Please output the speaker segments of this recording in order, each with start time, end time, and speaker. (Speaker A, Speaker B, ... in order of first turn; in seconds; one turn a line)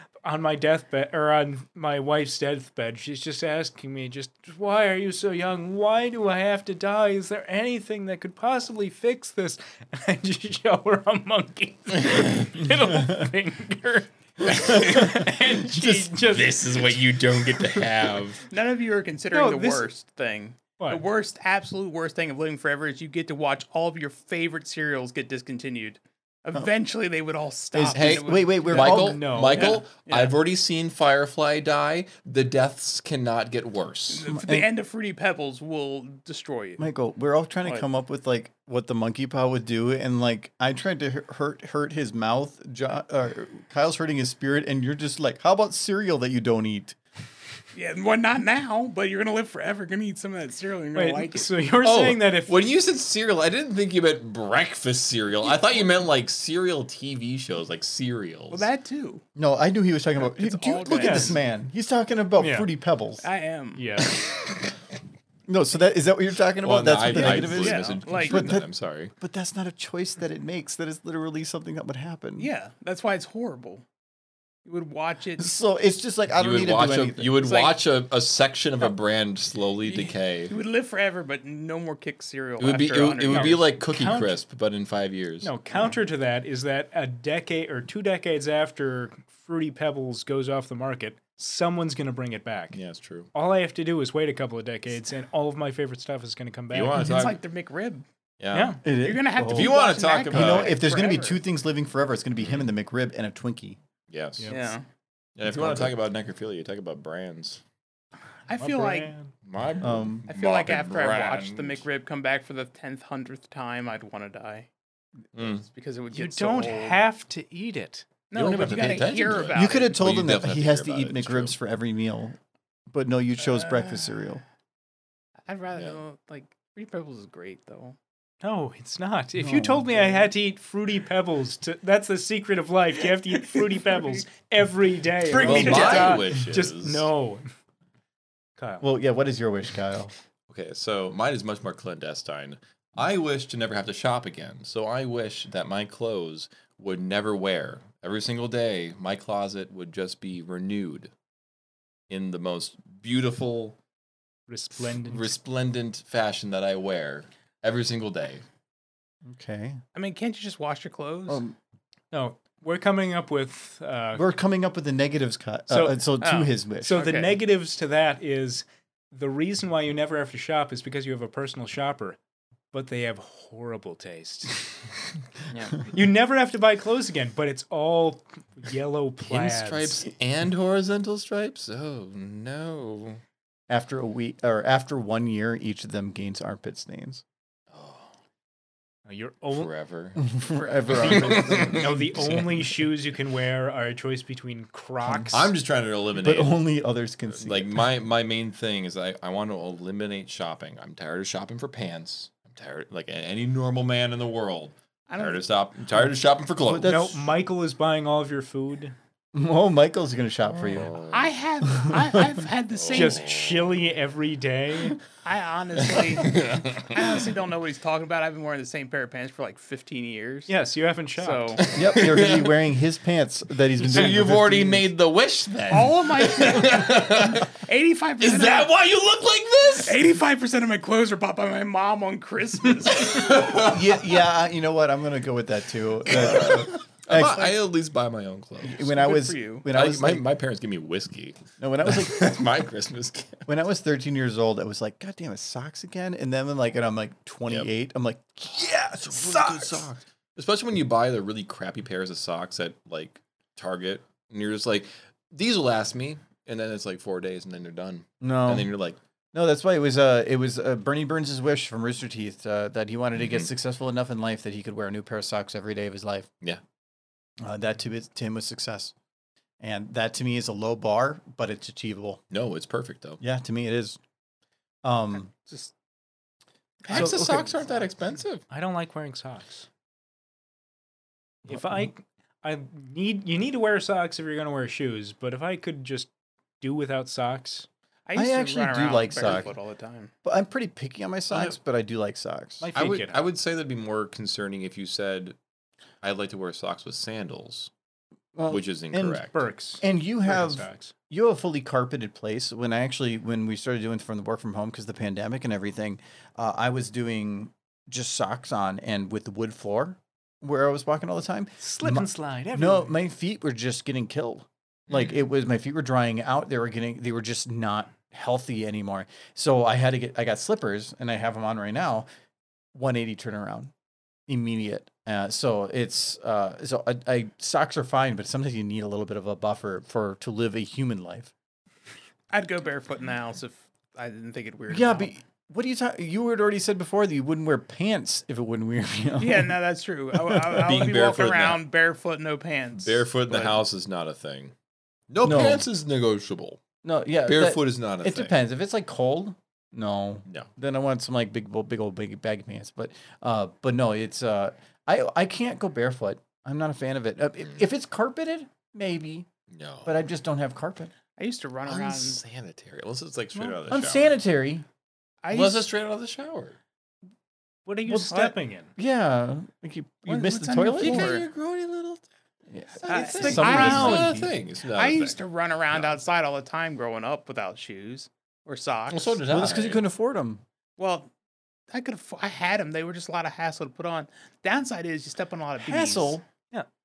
Speaker A: 0.2-16.8
Speaker B: 14.6-15.2
Speaker C: 16.1-18.5
Speaker D: 18.5-28.7
Speaker A: 19.3-19.9
Speaker B: 27.7-29.3
Speaker C: 27.9-34.3
Speaker A: 28.7-29.8
Speaker D: 29.4-30.3
Speaker D: 34.1-36.8
Speaker B: 34.3-34.7
Speaker B: 36.8-47.0
Speaker D: 47.7-51.5
Speaker A: 51.0-52.6
Speaker C: 51.8-58.7
Speaker D: 58.5-59.2
Speaker B: 59.4-63.2
Speaker D: 60.2-61.4
Speaker A: 61.0-61.4
Speaker A: 62.4-62.7
Speaker D: 63.2-63.8
Speaker A: 63.8-64.2
Speaker B: 65.5-72.5
Speaker C: 66.6-69.1
Speaker D: 67.2-68.5
Speaker D: 72.4-73.8
Speaker D: 74.7-75.5
Speaker B: 75.4-77.4
Speaker C: 76.3-80.5
Speaker D: 77.4-77.8
Speaker D: 79.9-83.6
Speaker C: 82.6-85.9
Speaker A: 83.3-84.4
Speaker A: 85.4-92.8
Speaker C: 92.7-93.3
Speaker A: 93.3-97.1
Speaker C: 96.7-97.4
Speaker D: 97.0-98.0
Speaker C: 98.4-98.8
Speaker A: 98.5-98.8
Speaker B: 98.8-99.8
Speaker D: 99.0-101.4
Speaker C: 99.4-100.8
Speaker B: 100.3-103.8
Speaker C: 102.4-102.7
Speaker C: 104.1-104.5
Speaker A: 104.4-104.8
Speaker D: 104.5-104.8
Speaker C: 105.4-107.6
Speaker B: 105.5-105.9
Speaker D: 108.5-109.1
Speaker A: 108.6-109.3
Speaker C: 109.5-111.8
Speaker B: 109.8-110.3
Speaker D: 110.3-114.7
Speaker C: 115.3-115.7
Speaker D: 115.5-117.0
Speaker A: 116.1-118.1
Speaker D: 118.3-120.0
Speaker C: 118.3-121.6
Speaker B: 119.5-122.4
Speaker B: 122.9-124.4
Speaker D: 123.6-124.1
Speaker D: 125.5-128.0
Speaker A: 128.4-137.5
Speaker B: 129.4-130.3
Speaker D: 133.3-134.2
Speaker D: 135.2-136.3
Speaker C: 135.3-137.1
Speaker A: 138.6-138.8
Speaker B: 138.8-140.1
Speaker C: 140.5-151.1
Speaker C: 152.1-153.8
Speaker A: 154.5-155.3
Speaker C: 154.8-158.4
Speaker B: 159.2-159.8
Speaker D: 159.9-161.4
Speaker B: 161.3-161.6
Speaker A: 162.1-164.2
Speaker B: 164.2-167.0
Speaker A: 165.7-166.1
Speaker D: 166.2-167.4
Speaker A: 166.8-172.2
Speaker A: 172.7-174.7
Speaker D: 175.5-175.8
Speaker A: 175.9-180.1
Speaker C: 179.2-183.2
Speaker B: 183.7-187.2
Speaker C: 187.7-188.1
Speaker A: 189.1-189.7
Speaker C: 189.5-190.2
Speaker B: 190.2-192.2
Speaker C: 190.9-192.5
Speaker A: 191.6-195.5
Speaker B: 195.0-195.3
Speaker C: 195.3-196.6
Speaker B: 196.1-197.8
Speaker C: 197.3-207.0
Speaker D: 205.1-205.4
Speaker B: 206.6-207.2
Speaker A: 206.8-208.9
Speaker B: 209.3-211.0
Speaker C: 210.5-211.3
Speaker D: 211.1-213.3
Speaker C: 212.7-213.8
Speaker A: 212.9-215.0
Speaker D: 215.2-220.6
Speaker C: 215.8-217.3
Speaker A: 220.5-221.6
Speaker D: 221.1-221.6
Speaker C: 221.6-222.6
Speaker B: 221.7-224.9
Speaker C: 223.8-227.5
Speaker D: 225.7-228.7
Speaker C: 228.2-230.0
Speaker D: 229.8-233.4
Speaker C: 232.9-234.2
Speaker B: 233.5-237.5
Speaker C: 236.1-238.9
Speaker B: 238.6-240.3
Speaker D: 238.9-239.7
Speaker C: 239.7-243.5
Speaker B: 241.6-242.4
Speaker B: 243.5-249.9
Speaker C: 248.6-259.0
Speaker B: 258.2-258.7
Speaker B: 259.3-266.3
Speaker C: 263.2-263.5
Speaker B: 267.4-268.9
Speaker B: 269.6-272.2
Speaker C: 272.3-273.2
Speaker B: 273.2-274.0
Speaker B: 274.8-275.3
Speaker D: 275.4-275.7
Speaker C: 276.9-278.4
Speaker B: 276.9-277.5
Speaker A: 278.5-279.7
Speaker A: 281.5-287.7
Speaker D: 288.1-290.1
Speaker B: 288.1-289.5
Speaker C: 289.2-289.5
Speaker B: 290.2-292.7
Speaker C: 291.3-291.6
Speaker A: 292.6-293.2
Speaker C: 292.7-295.4
Speaker C: 296.0-297.7
Speaker B: 298.4-299.3
Speaker C: 298.5-299.4
Speaker A: 299.3-300.9
Speaker B: 299.8-322.1
Speaker A: 311.6-312.9
Speaker C: 314.9-315.2
Speaker B: 322.7-323.7
Speaker B: 324.3-331.3
Speaker D: 332.3-335.1
Speaker B: 334.7-339.6
Speaker D: 339.2-343.6
Speaker C: 340.6-341.6
Speaker C: 342.8-344.5
Speaker C: 345.1-346.6
Speaker B: 345.2-345.7
Speaker B: 346.8-359.3
Speaker C: 347.2-348.4
Speaker C: 359.5-359.9
Speaker B: 359.9-360.9
Speaker D: 361.2-362.2
Speaker C: 361.7-364.1
Speaker B: 363.7-364.6
Speaker D: 365.2-365.7
Speaker C: 365.3-366.6
Speaker A: 367.6-368.7
Speaker B: 367.9-371.1
Speaker D: 370.1-371.2
Speaker C: 370.8-372.0
Speaker B: 372.5-374.3
Speaker C: 372.8-375.2
Speaker D: 372.8-379.2
Speaker A: 373.0-374.1
Speaker C: 375.7-376.0
Speaker C: 378.9-379.8
Speaker B: 379.3-380.4
Speaker D: 380.8-381.1
Speaker D: 381.7-386.2
Speaker B: 385.6-386.2